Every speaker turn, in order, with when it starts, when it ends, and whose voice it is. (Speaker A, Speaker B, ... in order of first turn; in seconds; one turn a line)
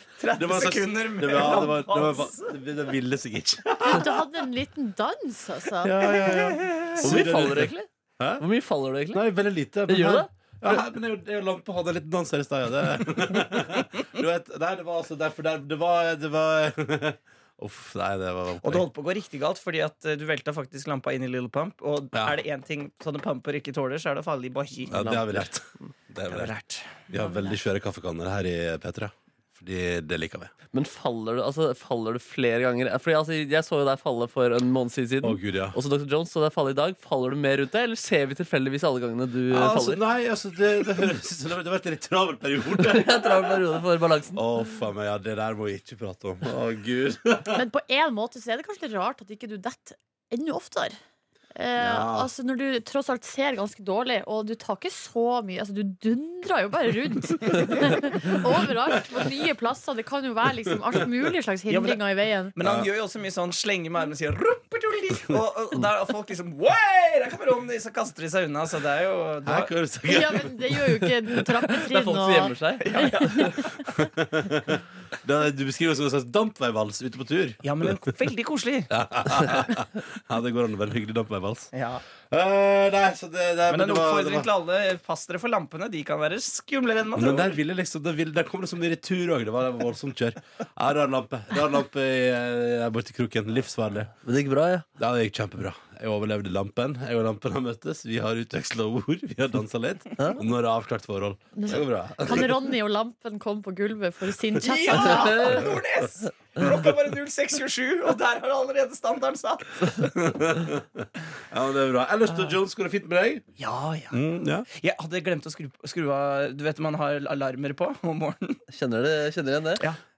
Speaker A: 0.2-2.5
Speaker B: 0.3-4.2
Speaker C: 3.9-6.1
Speaker B: 5.8-8.4
Speaker A: 6.2-7.2
Speaker D: 7.0-7.9
Speaker D: 8.4-9.2
Speaker B: 9.1-18.9
Speaker D: 9.9-10.3
Speaker A: 18.6-25.0
Speaker B: 24.9-26.5
Speaker D: 24.9-25.5
Speaker A: 26.3-26.9
Speaker B: 27.1-30.5
Speaker D: 30.7-40.0
Speaker B: 35.2-35.8
Speaker B: 39.5-43.6
Speaker D: 42.8-44.4
Speaker B: 44.3-47.6
Speaker C: 47.5-51.0
Speaker C: 51.5-62.5
Speaker B: 51.8-52.3
Speaker A: 61.7-62.0
Speaker A: 62.5-69.7
Speaker B: 69.4-71.1
Speaker C: 70.1-73.0
Speaker D: 71.7-73.4
Speaker A: 72.8-73.7
Speaker B: 74.0-77.9
Speaker A: 77.6-78.9
Speaker B: 78.9-81.7
Speaker A: 81.7-82.0
Speaker B: 82.3-84.5
Speaker A: 83.7-87.5
Speaker B: 87.1-94.1
Speaker D: 94.2-94.8
Speaker B: 95.0-102.6
Speaker C: 101.5-105.3
Speaker A: 104.6-109.8
Speaker D: 105.0-105.7
Speaker B: 110.0-113.4
Speaker A: 113.6-118.6
Speaker B: 114.1-114.7
Speaker D: 118.7-119.8